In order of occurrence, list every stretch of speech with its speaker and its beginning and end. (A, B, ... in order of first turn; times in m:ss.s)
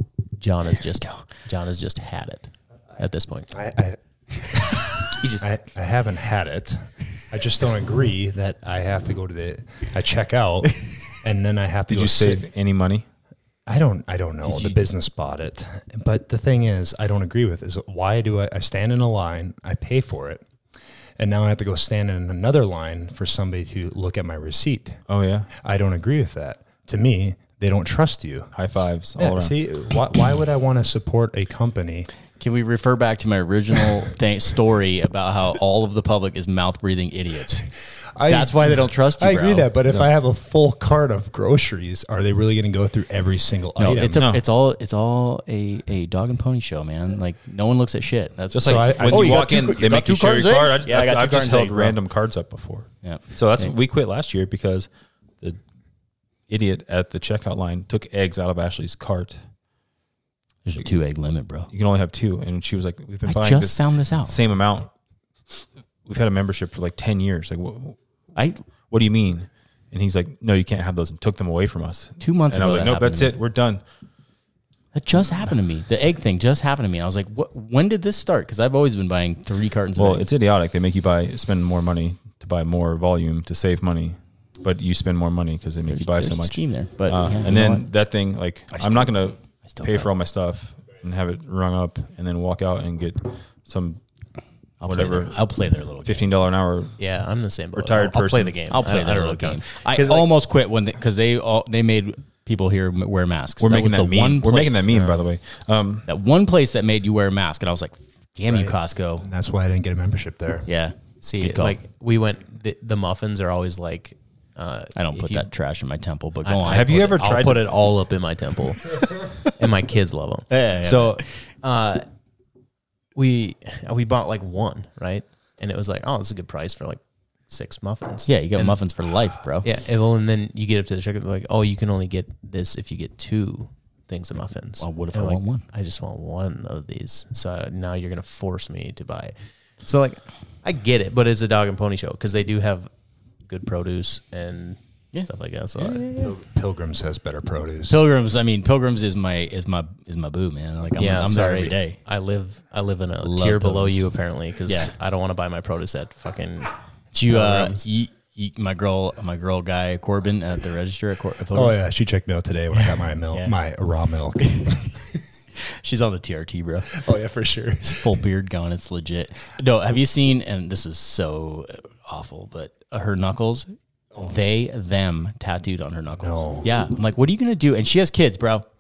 0:00.4-0:03.5 A
0:03.5-0:04.0 B
0:05.4-0:12.5 B
0:11.9-0:13.1 C
0:13.7-0:20.5 B
0:14.4-0:14.8 D
0:21.2-0:25.0 B
0:25.1-0:25.5 C
0:25.5-0:28.5 B
0:28.5-0:29.6 C
0:29.2-0:32.1 B
0:32.4-0:37.7 D
0:38.2-0:44.2 B
0:38.3-0:40.1 D
0:43.8-0:52.0 D
0:44.2-0:44.4 C
0:48.5-0:54.9 C
0:48.6-0:49.6 B
0:53.0-0:53.7 D
0:56.5-0:59.4 C
1:00.6-1:01.7 D
1:01.7-1:04.9 C
1:03.3-1:04.4 D
1:05.5-1:08.0 C
1:08.4-1:08.6 D
1:08.9-1:13.8 C
1:12.2-1:13.4 D
1:14.9-1:20.3 D
1:20.0-1:34.0 C
1:25.9-1:27.9 D
1:28.7-1:30.1 D
1:34.8-1:36.3 D
1:34.8-1:35.5 C
1:36.0-1:37.0 C
1:37.0-1:40.3 A
1:37.8-1:38.6 C
1:38.7-1:44.9 D
1:43.6-1:46.1 C
1:46.1-1:49.3 D
1:48.5-1:50.7 B
1:50.7-1:51.8 D
1:51.2-1:55.5 A
1:55.0-1:57.1 D
1:56.5-2:02.0 A
1:56.6-1:57.8 C
2:00.5-2:01.3 D
2:03.2-2:08.8 A
2:08.3-2:09.7 D
2:09.6-2:22.9 A
2:14.8-2:15.6 D
2:23.4-2:26.1 A
2:25.1-2:26.3 D
2:26.1-2:28.0 B
2:27.9-2:32.0 D
2:31.0-2:37.8 A
2:33.2-2:34.0 D
2:34.7-2:34.9 D
2:37.1-2:41.8 D
2:41.5-2:45.2 B
2:42.7-2:43.6 D
2:44.5-2:44.8 D
2:45.6-2:47.0 D
2:46.9-2:48.2 B
2:47.8-2:58.7 D
2:56.2-2:56.7 B